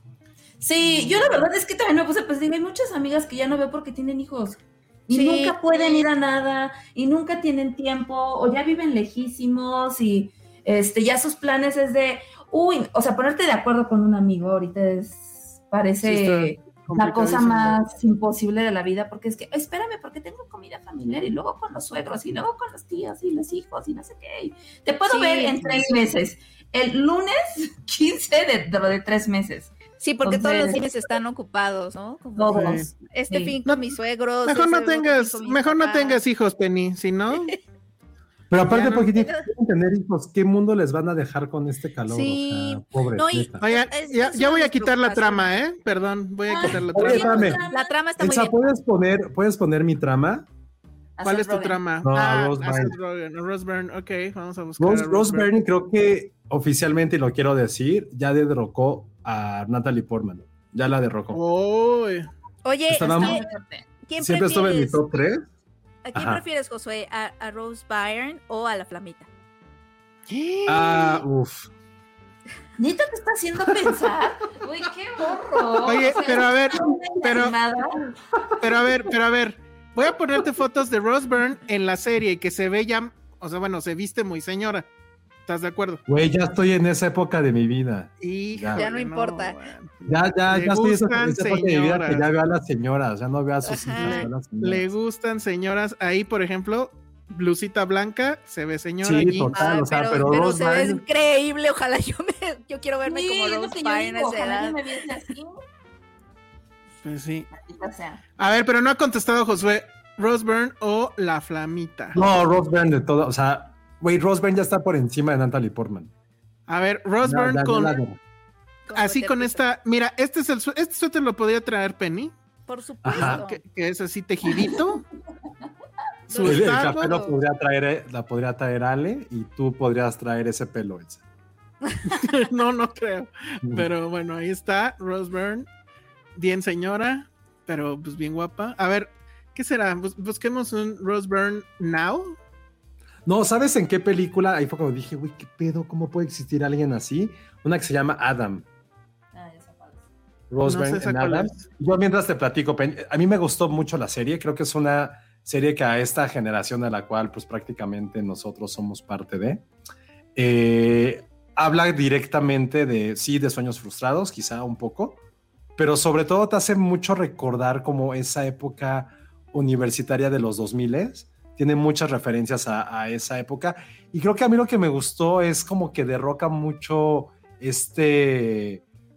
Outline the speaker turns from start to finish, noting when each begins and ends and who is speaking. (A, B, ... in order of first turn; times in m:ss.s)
0:00.6-0:30.8 A
0:00.8-0:01.5 B
0:05.1-0:06.1 C
0:16.0-0:17.8 B
0:25.1-0:25.6 C
0:30.0-0:36.2 C
0:32.4-0:33.6 A
0:32.5-0:32.9 B
0:34.4-0:37.5 B
0:38.5-0:43.6 D
0:38.7-0:39.1 B
0:39.1-0:39.5 C
0:42.1-0:45.5 C
0:43.6-0:47.6 B
0:46.5-0:47.9 A
0:46.9-0:47.6 D
0:47.7-0:48.7 C
0:48.2-0:50.5 D
0:51.2-0:51.8 A
0:51.2-0:55.5 B
0:52.0-0:53.0 D
0:54.8-1:01.4 D
1:01.3-1:02.3 B
1:02.6-1:03.4 C
1:02.9-1:03.4 D
1:03.0-1:03.8 A
1:04.1-1:05.0 C
1:04.2-1:05.4 D
1:06.0-1:09.3 C
1:06.1-1:06.4 D
1:10.3-1:11.2 B
1:10.7-1:11.7 D
1:12.8-1:18.0 A
1:15.8-1:17.6 B
1:18.6-1:24.9 B
1:25.5-1:26.0 B
1:26.1-1:28.8 D
1:28.2-1:32.3 B
1:28.7-1:29.6 C
1:30.1-1:34.9 D
1:33.6-1:34.3 C
1:34.0-1:39.8 B
1:39.0-1:41.0 D
1:39.5-1:44.8 C
1:43.0-1:45.6 A
1:47.0-1:47.5 B
1:47.5-1:48.2 A
1:48.4-1:52.2 B
1:52.1-1:56.1 D
1:56.7-1:58.0 B
1:57.2-1:58.2 D
1:58.9-1:59.6 C
1:58.9-2:02.3 B
2:02.7-2:03.6 C
2:03.0-2:03.4 D
2:03.1-2:05.0 B
2:06.3-2:07.2 B
2:06.3-2:07.3 C
2:06.4-2:11.2 D
2:12.1-2:15.7 B
2:16.4-2:22.4 B
2:23.2-2:28.6 D
2:29.3-2:30.0 A
2:30.5-2:39.6 D
2:30.7-2:31.6 B
2:40.4-2:45.2 D
2:45.8-2:58.8 D